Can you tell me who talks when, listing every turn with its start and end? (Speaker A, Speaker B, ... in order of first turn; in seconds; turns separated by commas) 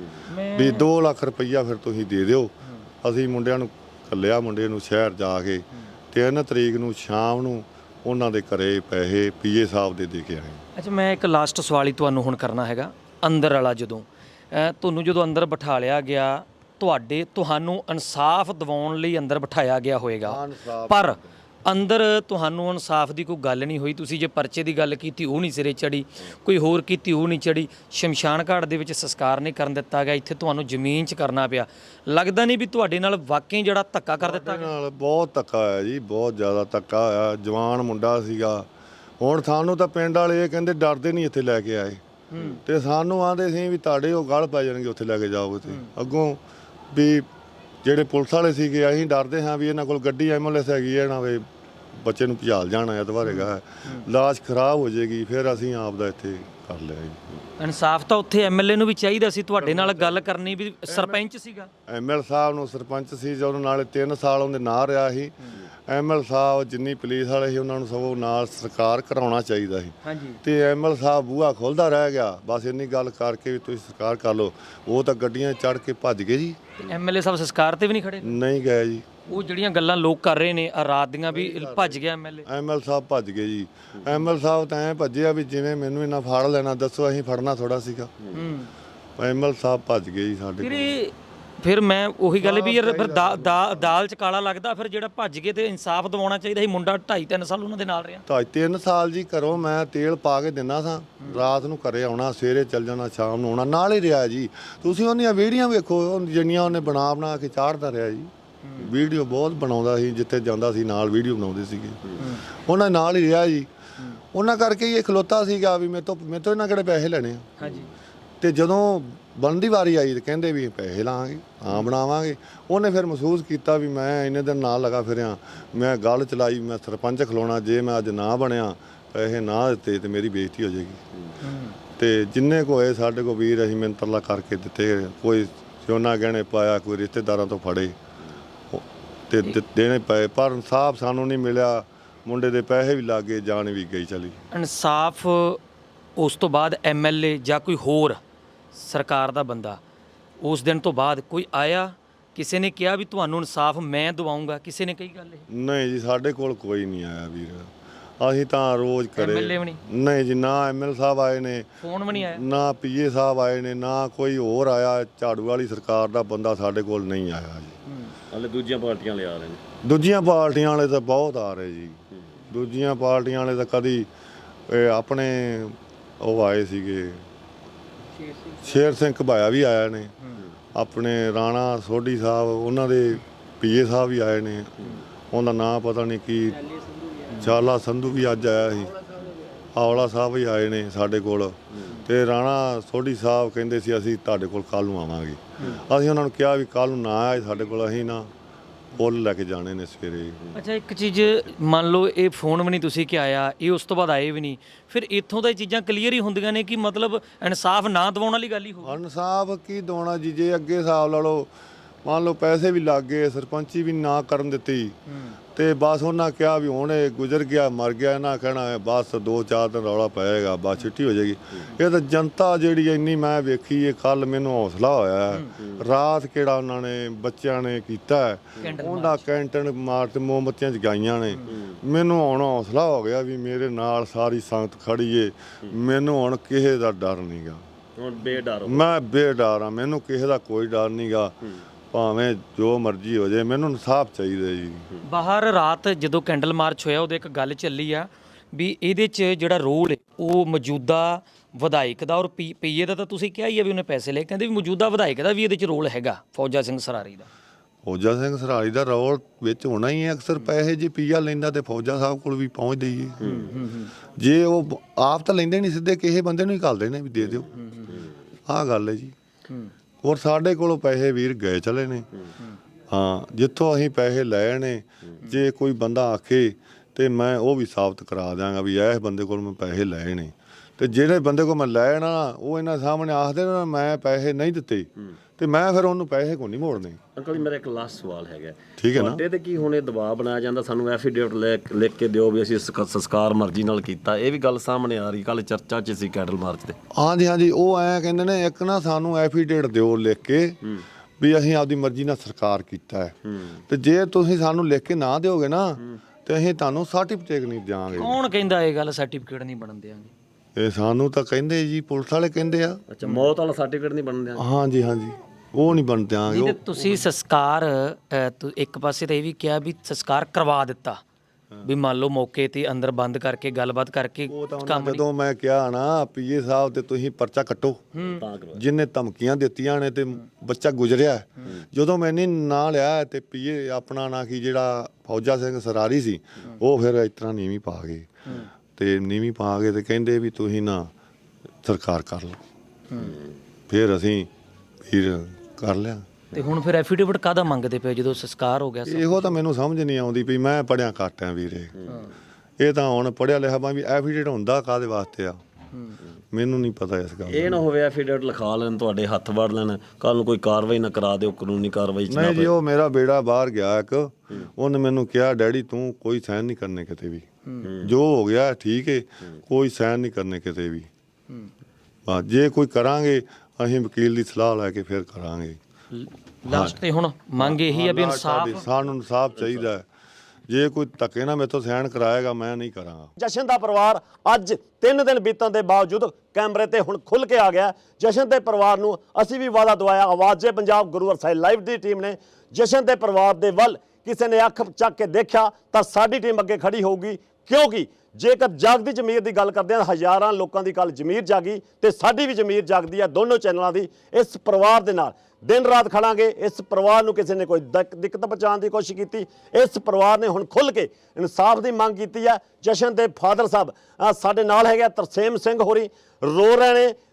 Speaker A: 0.3-0.9, Speaker B: 0.5-10.6, Speaker A: 10.8-34.7, Speaker B: 20.2-21.3, Speaker B: 34.2-38.7, Speaker B: 39.2-42.0, Speaker A: 42.3-42.6, Speaker B: 42.6-46.4, Speaker B: 46.9-47.3, Speaker B: 47.8-57.2, Speaker A: 53.2-54.0, Speaker A: 57.6-61.7, Speaker B: 59.6-60.3, Speaker B: 60.9-61.2, Speaker B: 61.9-65.4, Speaker B: 65.9-76.6, Speaker A: 70.0-70.4, Speaker A: 76.8-78.4, Speaker B: 78.2-79.2, Speaker A: 79.3-82.5, Speaker B: 81.3-88.1, Speaker C: 88.2-88.5, Speaker A: 88.3-88.7, Speaker B: 89.2-91.0, Speaker A: 90.6-98.2, Speaker B: 92.4-93.9, Speaker B: 98.3-113.7, Speaker A: 108.6-108.9, Speaker B: 114.3-117.5, Speaker A: 117.6-117.9, Speaker C: 117.6-117.9, Speaker B: 118.4-131.0, Speaker A: 131.4-131.8, Speaker B: 132.0-138.0, Speaker B: 138.7-144.4, Speaker A: 144.5-145.6, Speaker A: 146.2-148.2, Speaker A: 148.7-149.8, Speaker A: 150.4-155.5, Speaker B: 155.5-167.8, Speaker A: 159.2-159.8, Speaker A: 161.8-162.4, Speaker A: 167.9-168.1, Speaker C: 168.3-169.6, Speaker B: 169.8-174.1, Speaker B: 174.7-177.3, Speaker B: 178.6-180.1, Speaker B: 180.8-184.7, Speaker B: 185.3-186.8, Speaker B: 187.3-189.0, Speaker B: 189.7-198.3, Speaker B: 198.9-200.6, Speaker A: 200.5-209.0, Speaker B: 208.8-211.5, Speaker B: 212.1-215.0, Speaker A: 215.1-215.4, Speaker B: 215.6-237.6, Speaker A: 228.6-229.3, Speaker C: 231.5-231.8, Speaker C: 238.0-238.9, Speaker B: 238.7-241.3, Speaker B: 241.9-244.9, Speaker A: 245.0-257.3, Speaker B: 257.9-263.3, Speaker C: 263.2-263.5, Speaker A: 263.2-263.9, Speaker B: 264.2-267.5, Speaker C: 267.2-268.1, Speaker A: 267.6-267.9, Speaker B: 268.5-269.1, Speaker B: 270.0-272.1, Speaker B: 272.9-287.0, Speaker C: 287.2-296.8, Speaker B: 288.8-289.2, Speaker B: 296.9-300.6, Speaker B: 301.2-303.2, Speaker B: 303.7-308.2, Speaker A: 307.9-310.1, Speaker B: 310.6-312.8, Speaker C: 312.9-314.4, Speaker B: 314.4-317.0, Speaker A: 316.3-321.0, Speaker A: 321.6-325.0, Speaker B: 324.3-327.9, Speaker A: 327.9-328.2, Speaker C: 328.1-328.6, Speaker B: 328.5-338.1, Speaker B: 338.8-340.9, Speaker B: 341.6-342.4, Speaker A: 342.9-343.1, Speaker B: 343.7-344.3, Speaker B: 344.8-346.1, Speaker A: 346.3-349.4, Speaker B: 348.9-351.8, Speaker B: 352.6-355.4, Speaker B: 356.3-357.6, Speaker C: 357.3-362.5, Speaker B: 362.1-367.3, Speaker C: 367.6-367.9, Speaker B: 367.8-370.9, Speaker B: 372.1-375.6, Speaker A: 375.9-378.6, Speaker B: 376.5-376.8, Speaker B: 377.4-379.9, Speaker B: 380.5-383.1, Speaker D: 383.2-417.0